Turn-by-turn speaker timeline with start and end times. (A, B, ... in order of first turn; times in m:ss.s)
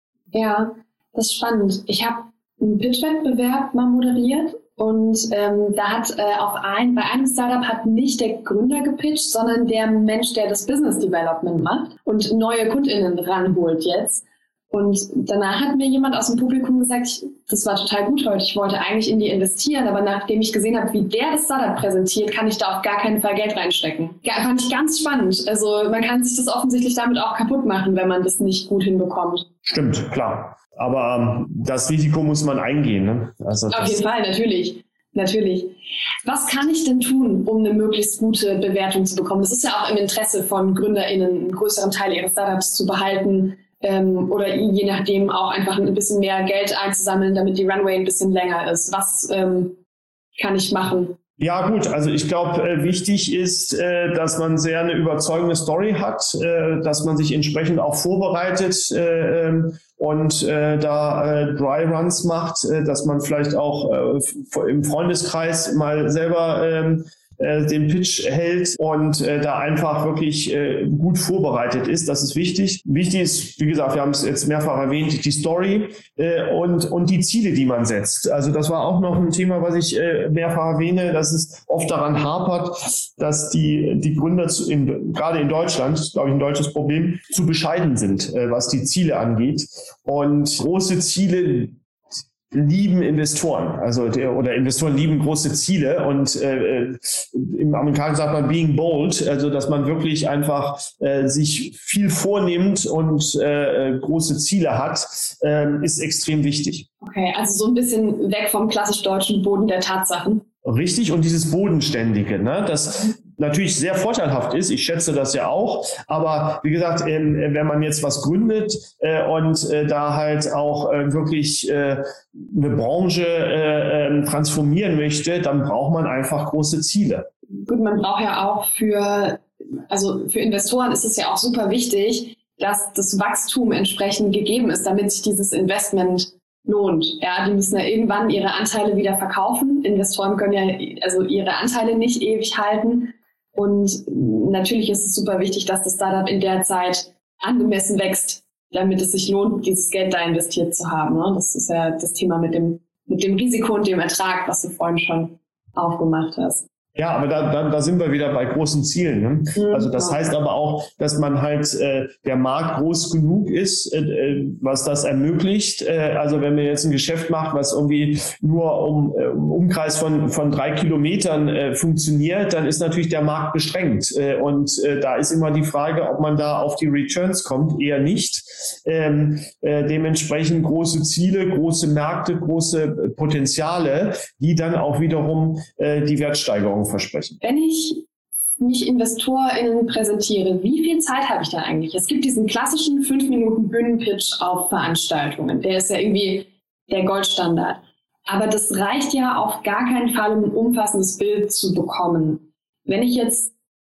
0:00.3-0:29.5 A
0:29.6-0:34.0 B
0:33.7-0:49.8 A
0:50.4-0:51.2 A
0:51.4-1:31.8 B
1:32.5-1:46.9 B
1:47.0-1:50.4 A
1:50.6-2:07.3 B
2:07.6-2:36.6 A
2:37.0-3:07.4 B
2:39.5-2:40.2 A
3:07.4-3:08.0 A
3:08.6-3:23.5 A